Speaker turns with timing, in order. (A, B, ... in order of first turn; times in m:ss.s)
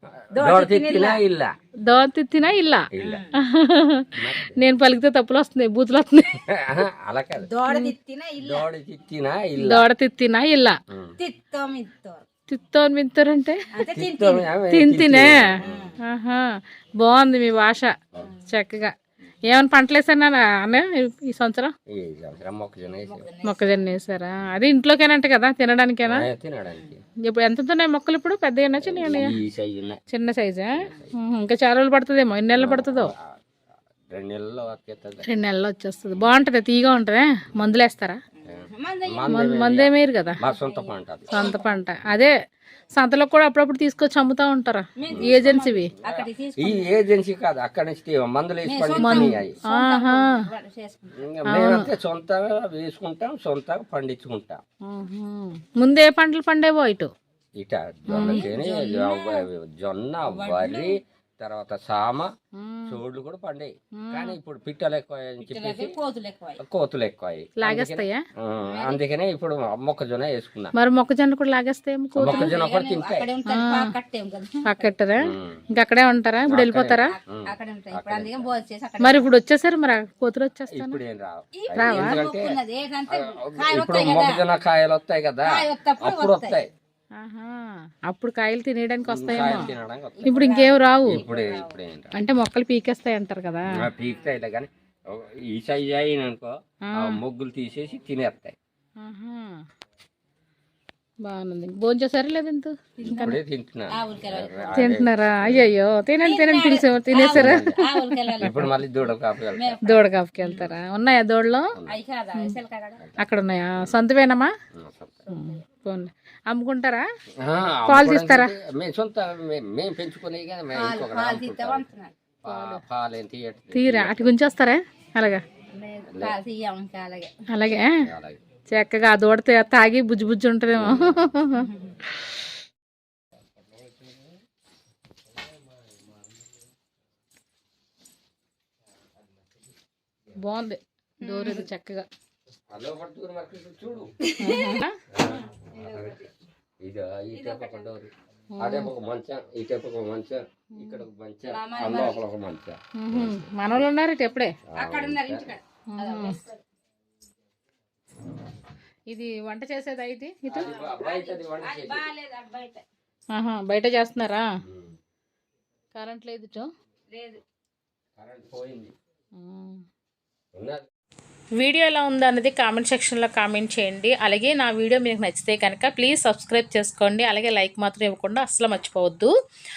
0:00.3-0:01.5 A
0:00.3-0:01.2 B
0:01.8-0:06.4 C
0:02.9-0:03.2 A
0:04.1-0:04.6 A
0:06.5-0:07.5 A
0:07.4-0:08.7 B
0:07.7-0:07.9 C
0:08.4-0:09.9 A
0:09.6-0:10.8 C
0:11.2-0:12.2 B
0:12.5-0:13.8 C
0:13.7-0:14.5 B
0:13.9-0:16.0 A
0:14.7-0:15.4 C
0:15.6-0:16.0 B
0:16.0-0:16.4 C
0:17.0-0:18.0 C
0:18.5-0:18.9 C
0:19.5-0:21.7 C
0:21.9-0:23.3 A
0:23.0-0:23.9 B
0:23.4-0:26.3 C
0:26.0-0:27.0 A
0:27.2-0:29.3 C
0:28.8-0:30.0 A
0:30.1-0:33.1 C
0:30.7-0:31.1 A
0:32.6-0:33.4 A
0:34.1-0:35.3 A
0:35.2-0:38.2 C
0:38.4-0:39.4 B
0:38.5-0:41.3 A
0:39.3-0:40.4 C
0:40.5-0:41.7 B
0:41.3-0:42.3 C
0:43.0-0:45.9 C
0:45.0-0:46.9 B
0:45.1-0:49.6 A
0:48.6-0:51.1 B
0:49.0-0:50.4 C
0:51.2-0:54.6 A
0:51.5-0:51.9 C
0:54.8-0:57.1 C
0:57.6-1:02.3 A
0:58.1-0:59.4 B
0:58.1-0:58.5 C
1:00.3-1:01.0 B
1:02.6-1:03.0 C
1:02.8-1:06.0 A
1:04.0-1:04.4 C
1:05.5-1:06.6 B
1:06.6-1:10.7 A
1:07.6-1:08.2 C
1:08.6-1:09.0 B
1:10.8-1:12.5 C
1:12.2-1:13.3 A
1:12.2-1:14.9 B
1:13.5-1:13.9 C
1:14.6-1:17.1 C
1:15.2-1:15.6 A
1:16.5-1:18.4 A
1:17.0-1:19.3 B
1:19.0-1:21.0 C
1:20.7-1:22.6 A
1:21.5-1:24.4 B
1:21.8-1:22.2 C
1:23.1-1:26.7 A
1:25.4-1:26.6 B
1:27.2-1:29.7 C
1:29.1-1:32.1 A
1:29.3-1:31.8 B
1:30.2-1:31.2 C
1:32.1-1:33.9 C
1:33.7-1:38.6 A
1:39.0-1:39.6 C
1:41.2-1:43.4 C
1:43.0-1:43.4 B
1:43.0-1:45.7 A
1:43.9-1:44.9 B
1:44.7-1:48.6 C
1:46.2-1:48.8 B
1:47.2-1:47.8 A
1:48.4-1:49.8 A
1:49.5-1:50.6 B
1:49.8-1:51.7 C
1:51.8-1:53.0 B
1:53.2-1:54.5 C
1:54.7-1:55.2 A
1:55.3-1:55.6 B
1:55.3-1:57.0 C
1:57.4-2:01.8 A
1:57.9-1:58.5 C
2:00.7-2:02.1 B
2:02.4-2:04.3 A
2:02.5-2:02.8 C
2:03.7-2:05.4 C
2:05.7-2:07.3 B
2:07.5-2:08.0 C
2:08.0-2:08.4 A
2:08.7-2:11.7 C
2:10.7-2:11.3 A
2:11.6-2:11.9 B
2:20.4-2:22.1 C
2:21.2-2:21.7 B
2:22.7-2:24.1 A
2:24.2-2:26.3 B
2:24.4-2:25.0 C
2:25.1-2:26.2 A
2:26.8-2:33.4 A
2:27.3-2:27.9 B
2:28.6-2:28.9 C
2:30.8-2:31.0 C
2:31.5-2:32.2 B
2:33.0-2:34.5 C
2:34.7-2:35.5 A
2:34.7-2:36.6 B
2:36.0-2:36.4 C
2:39.1-2:40.7 C
2:40.5-2:42.1 A
2:40.5-2:42.8 B
2:43.3-2:44.5 C
2:44.6-2:45.0 A
2:45.9-2:46.7 C
2:47.1-2:47.4 B
2:48.2-2:48.9 A
2:49.4-2:49.8 C
2:50.5-2:50.9 A
2:51.6-2:59.3 C